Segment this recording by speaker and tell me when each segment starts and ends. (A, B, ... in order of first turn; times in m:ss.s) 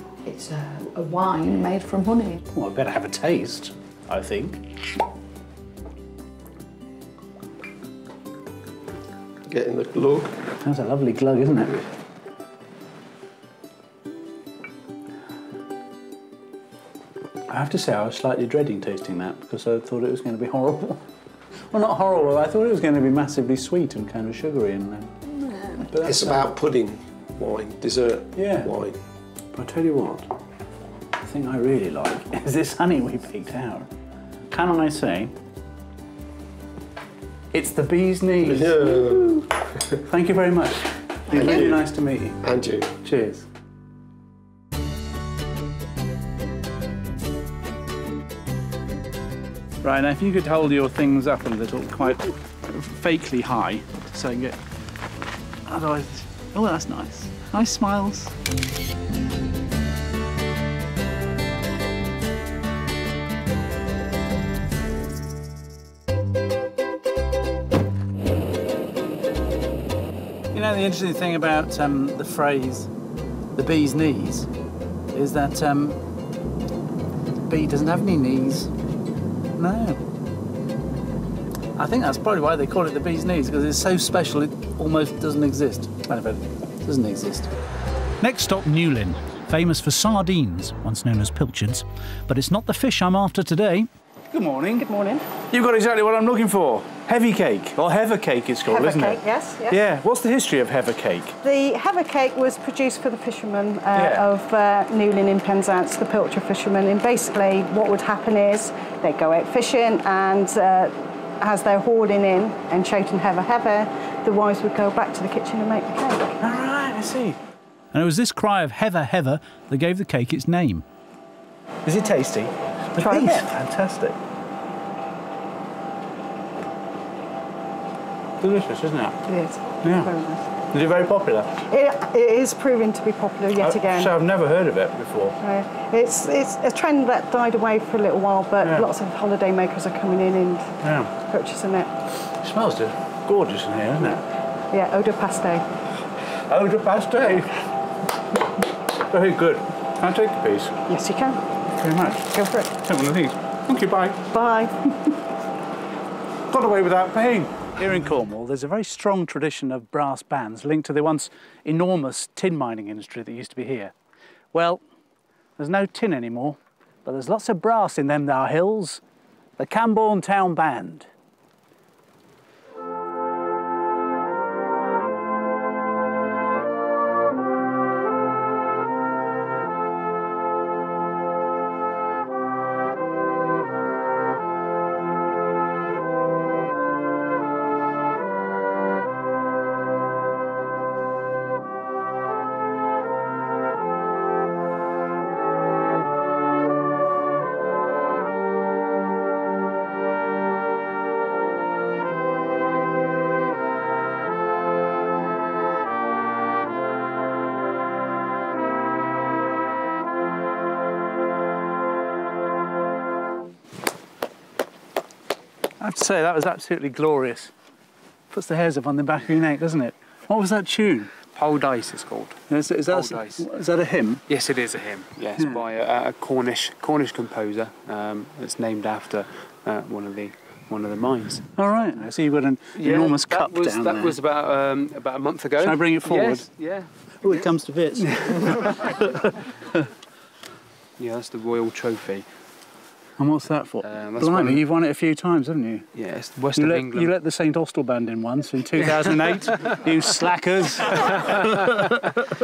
0:00.2-0:02.4 A
0:02.5-0:04.6 B
0:09.5-0:10.3 C
0:10.6-0:11.8 B
0:17.5-0:21.1 B
0:21.7-0:26.5 B
0:25.9-0:29.0 C
0:28.3-0:28.7 B
0:29.5-0:30.3 B
0:31.2-0:33.9 B
0:34.5-0:35.3 B
0:37.5-0:39.4 B
0:38.4-0:39.4 C
0:40.0-0:42.4 B
0:41.3-0:41.8 C
0:42.4-0:42.9 C
0:43.0-0:43.4 B
0:49.8-0:54.6 B
0:55.6-0:58.3 B
1:10.5-1:12.9 B
1:13.5-1:14.5 B
1:15.1-1:16.0 B
1:17.5-1:18.7 B
1:19.6-1:20.0 B
1:21.8-1:27.5 B
1:28.2-1:34.8 B
1:34.7-1:35.2 D
1:35.5-1:41.4 B
1:38.7-1:39.8 D
1:41.4-1:56.4 D
1:43.9-1:44.3 B
1:56.4-1:57.4 B
1:57.9-2:00.8 B
2:01.8-2:04.2 B
2:03.0-2:03.4 D
2:08.4-2:09.2 B
2:09.3-2:10.5 D
2:09.8-2:10.1 B
2:10.7-2:11.6 B
2:11.7-2:14.1 D
2:13.6-2:15.4 B
2:15.4-2:21.9 D
2:18.6-2:18.9 B
2:20.8-2:21.1 B
2:22.4-2:24.2 B
2:24.7-2:25.6 D
2:26.5-2:27.6 B
2:29.1-2:30.8 B
2:30.9-2:31.4 D
2:31.8-2:34.3 B
2:32.3-2:32.7 D
2:34.3-2:34.7 D
2:36.5-2:43.9 B
2:44.5-2:44.8 B
2:45.6-2:49.0 B
2:49.6-2:51.1 B
3:35.8-3:37.5 B
3:38.3-3:41.1 B
3:41.2-3:43.5 E
3:42.5-3:44.2 B
3:44.3-3:51.5 E
3:51.6-3:54.2 B
3:52.8-3:56.9 E
3:55.6-3:56.5 B
3:57.2-3:59.0 B
3:58.3-3:58.8 E
4:01.0-4:02.3 E
4:03.2-4:05.9 B
4:03.8-4:04.6 E
4:05.9-4:07.1 E
4:06.5-4:11.5 B
4:08.8-4:09.8 E
4:11.2-4:11.9 E